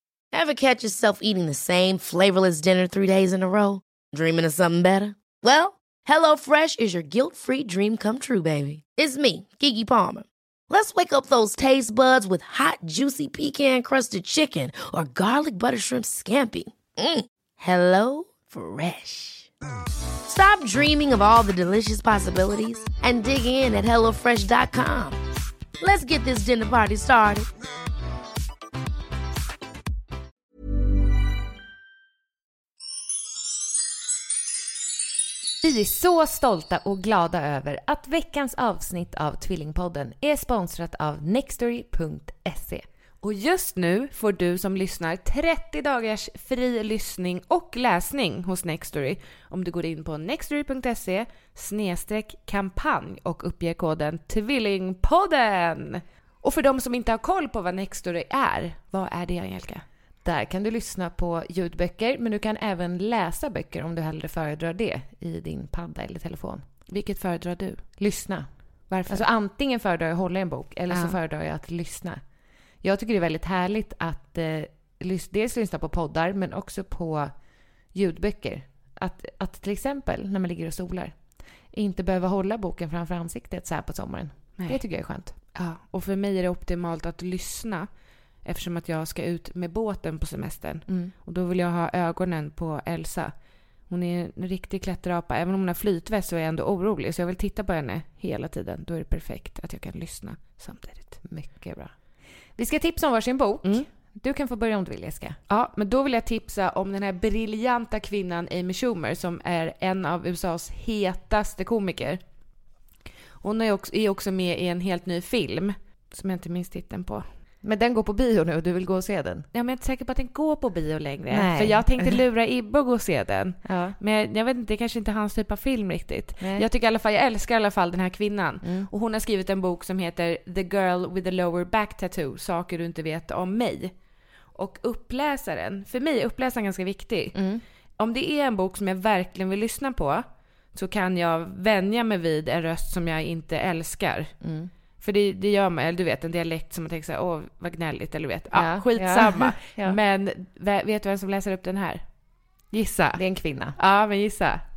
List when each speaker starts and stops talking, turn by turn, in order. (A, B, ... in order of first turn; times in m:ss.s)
0:00.3-0:19.5 A
0:20.2-0:25.2 A
0:25.8-0:27.5 A
0:35.6-0:42.8 B
0:43.2-0:59.8 C
1:00.2-1:06.6 B
1:06.9-1:07.8 C
1:08.0-1:08.5 B
1:08.9-1:09.2 C
1:09.0-1:12.2 B
1:10.9-1:11.2 C
1:12.8-1:17.3 B
1:17.9-1:21.1 B
1:21.7-1:25.3 B
1:25.5-1:27.9 C
1:28.4-1:33.3 C
1:33.9-1:41.2 C
1:41.2-1:41.9 B
1:42.6-1:45.4 B
1:45.5-1:52.2 C
1:53.4-1:57.2 C
1:57.6-1:59.5 B
1:59.5-2:13.9 C
2:01.3-2:02.2 B
2:03.6-2:04.0 B
2:06.4-2:06.6 B
2:14.5-2:17.4 C
2:17.3-2:17.6 B
2:18.0-2:24.3 C
2:24.4-2:24.7 B
2:25.0-2:32.0 C
2:28.5-2:30.0 B
2:32.7-2:33.2 C
2:33.1-2:33.7 B
2:33.8-2:34.6 C